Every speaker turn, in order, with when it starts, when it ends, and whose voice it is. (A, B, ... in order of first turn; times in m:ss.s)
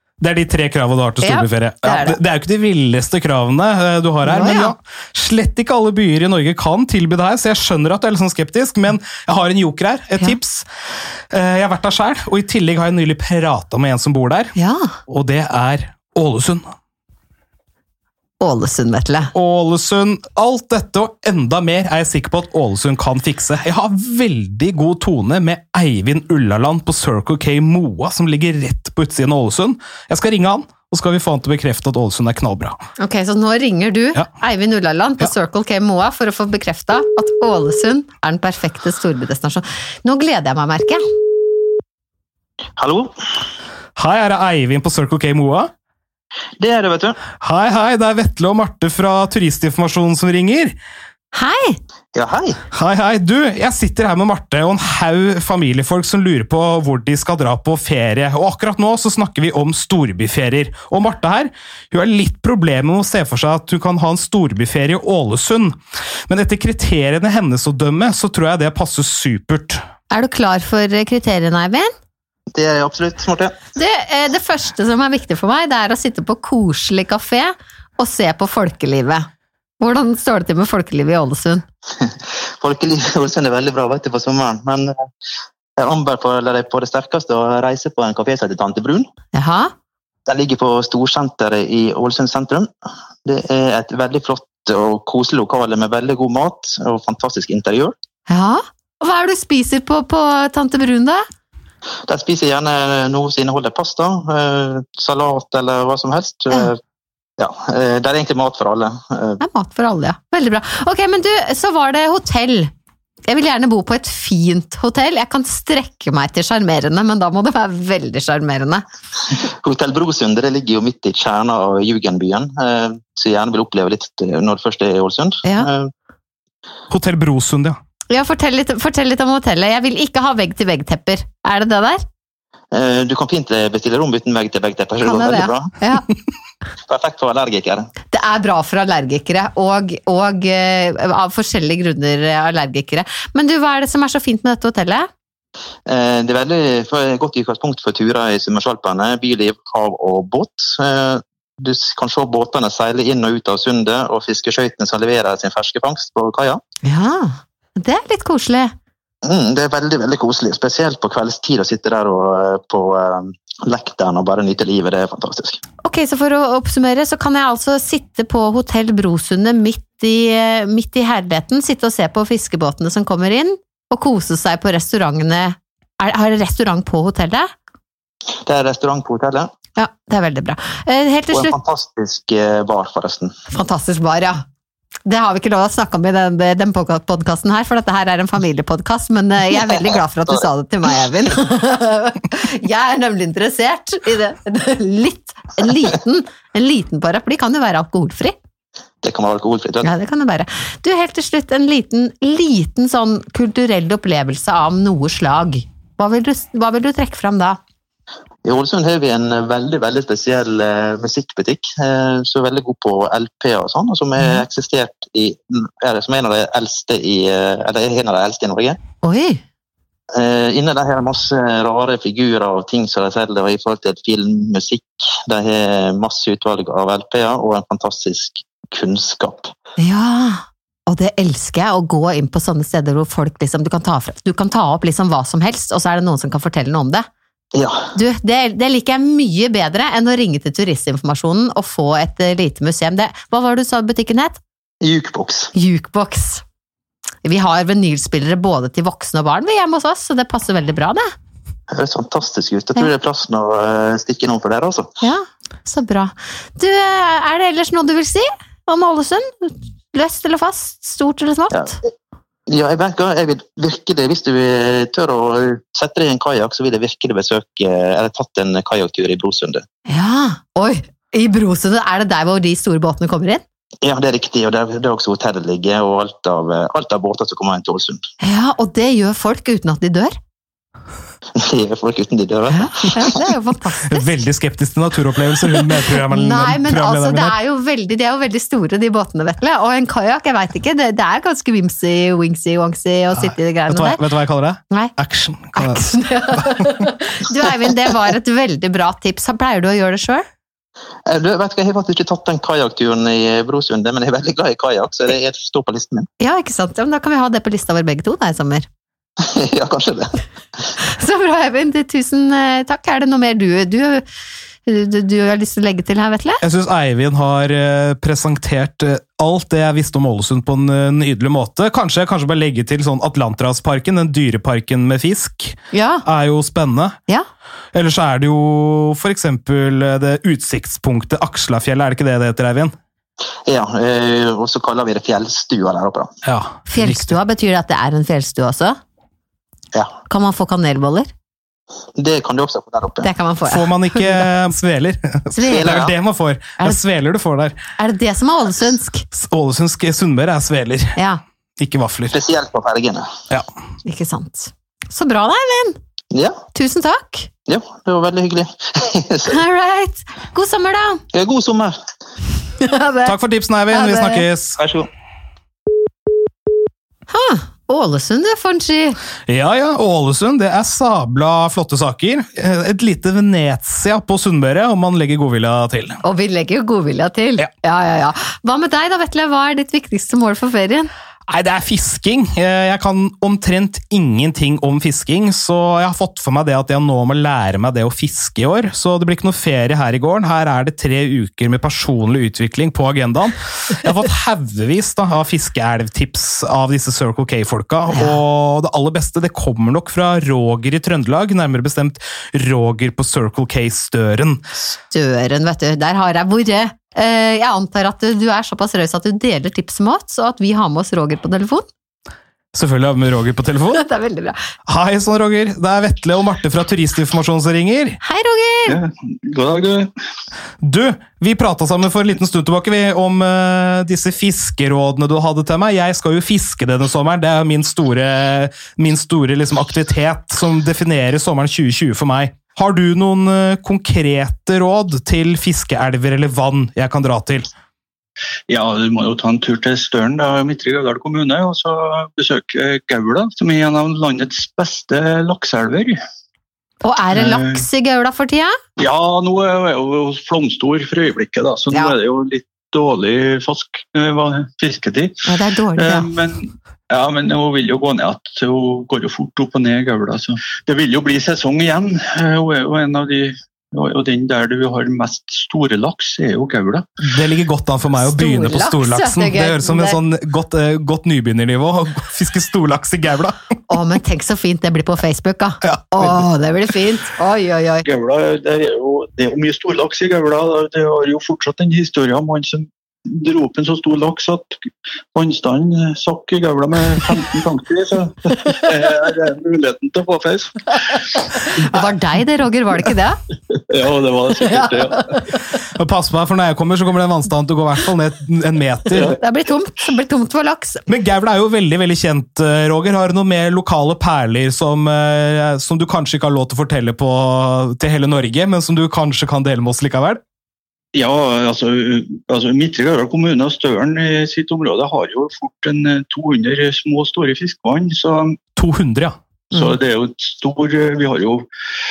0:00.2-0:10.6 A
0:01.2-0:02.2 B
0:04.2-0:04.7 B
0:11.3-0:14.5 A
0:14.6-0:14.9 B
0:15.1-0:16.6 A
0:18.4-0:19.3 B
0:19.3-0:32.8 A
0:33.0-0:41.0 B
0:42.8-0:43.3 C
0:44.0-0:45.7 A
0:46.6-0:47.2 C
0:47.4-0:50.8 A
0:51.3-0:51.8 B
0:52.1-0:52.6 C
0:52.7-1:05.8 A
1:06.3-1:09.8 A
1:10.1-1:11.9 B
1:12.5-1:13.5 C
1:13.7-1:19.3 B
1:19.8-1:21.6 B
1:22.0-1:24.9 C
1:25.8-1:29.0 C
1:29.3-1:29.7 B
1:30.2-1:32.7 C
1:33.2-1:37.9 C
1:38.3-1:41.2 B
1:42.1-1:46.8 C
1:47.4-1:49.4 C
1:49.4-1:52.7 B
1:53.3-1:58.8 B
1:59.3-2:05.9 C
2:05.4-2:05.7 B
2:06.9-2:07.8 A
2:08.1-2:12.0 B
2:12.7-2:15.7 C
2:15.0-2:16.1 B
2:16.8-2:17.9 C
2:18.1-2:25.1 B
2:25.8-2:36.6 C
2:36.8-2:38.7 B
2:39.2-2:45.6 C
2:45.8-2:57.5 B
2:58.4-2:59.5 C
2:59.8-3:01.5 B
3:01.3-3:03.3 C
3:03.5-3:04.4 B
3:05.0-3:18.3 B
3:19.0-3:19.9 C
3:19.8-3:27.6 B
3:28.4-3:38.8 C
3:39.0-3:39.4 B
3:40.1-3:49.5 C
3:49.8-3:57.0 B
3:57.5-3:57.9 C
3:57.9-4:04.4 B
4:04.8-4:05.5 C
4:05.5-4:06.4 B
4:07.2-4:11.1 B
4:11.7-4:14.9 C
4:15.0-4:21.8 B
4:22.5-4:29.6 C
4:29.9-4:33.4 B
4:33.8-4:38.0 C
4:38.2-4:40.2 B
4:41.4-4:43.1 C
4:42.5-4:44.2 B
4:43.9-4:47.3 A
4:46.1-4:54.0 B
4:53.7-4:55.8 A
4:55.5-5:00.2 B
5:01.1-5:06.1 C
5:06.2-5:08.7 B
5:09.2-5:10.2 C
5:10.8-5:14.0 B
5:14.6-5:16.4 B
5:16.4-5:27.0 A
5:25.7-5:26.0 B
5:27.7-5:32.7 A
5:33.5-5:36.1 C
5:36.2-5:37.2 A
5:36.7-5:38.8 B
5:40.1-5:41.1 B
5:42.0-5:43.1 C
5:43.0-5:44.3 B
5:43.5-5:47.6 A
5:45.3-5:45.8 B
5:45.5-5:45.9 C
5:47.8-5:49.0 B
5:49.1-5:51.0 A
5:51.0-5:51.2 B
5:51.6-5:52.1 A
5:52.1-5:53.0 C
5:53.8-5:55.8 B
5:56.5-5:57.3 B
5:57.5-5:59.4 C
5:59.3-6:01.0 B
6:01.1-6:01.8 C
6:02.6-6:03.2 B
6:03.0-6:04.6 A
6:03.7-6:04.2 B
6:04.6-6:04.9 C
6:07.1-6:09.0 B
6:09.3-6:16.0 A
6:16.0-6:20.9 B
6:21.3-6:44.4 A
6:44.9-6:51.6 B
6:52.5-6:53.8 A
6:53.7-6:54.4 B
6:54.7-6:58.0 A
6:58.0-6:58.8 B
6:58.7-6:59.9 D
7:00.6-7:17.5 A
7:18.5-7:26.0 D
7:26.8-7:28.5 B
7:27.1-7:27.6 D
7:28.8-7:35.2 D
7:31.7-7:32.0 B
7:35.2-7:36.1 B
7:35.8-7:46.9 D
7:47.0-7:53.4 A
7:48.0-7:50.0 B
7:53.7-7:57.8 B
7:55.6-7:56.2 A
7:57.8-8:04.6 D
8:05.1-8:11.5 D
8:11.3-8:13.2 B
8:13.6-8:15.2 D
8:15.5-8:19.2 A
8:19.2-8:20.8 B
8:20.9-8:30.2 A
8:30.9-8:38.4 D
8:38.6-8:39.1 A
8:39.5-8:41.4 D